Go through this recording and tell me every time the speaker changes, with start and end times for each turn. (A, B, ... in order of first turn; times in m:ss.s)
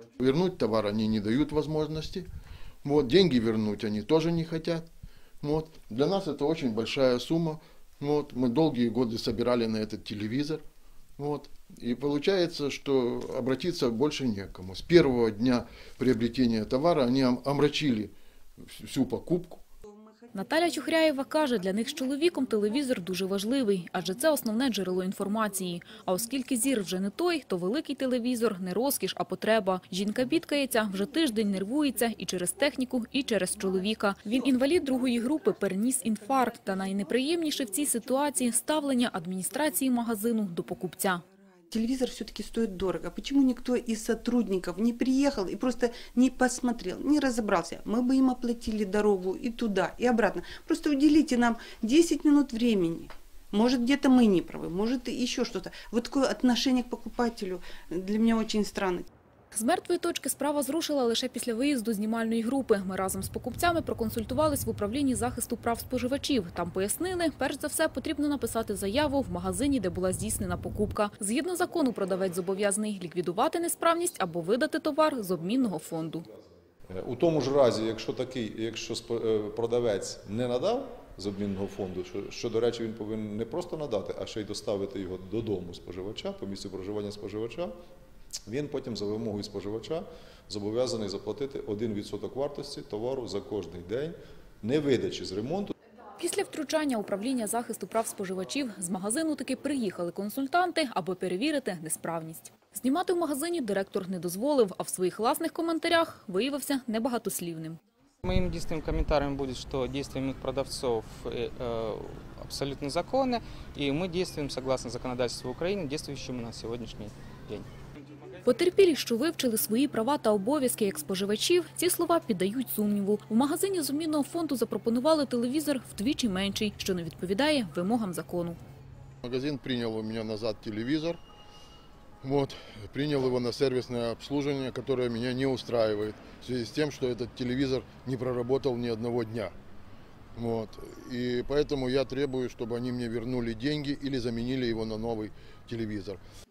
0:00.2-0:02.3 A
0:02.8-0:04.9 A
0:05.4-0:10.6 A
0:11.2-0:18.1 A
0:18.6-0:19.6 A
0:19.9-0:20.3 B
0:20.3-0:41.2 C
0:41.3-0:59.1 B
0:59.5-1:16.3 C
1:16.9-1:27.7 D
1:28.5-1:35.7 D
1:36.2-1:47.8 C
1:48.2-1:58.2 E
1:58.4-2:08.6 C
2:09.2-2:11.2 A
2:12.2-2:19.5 A
2:20.4-2:26.2 A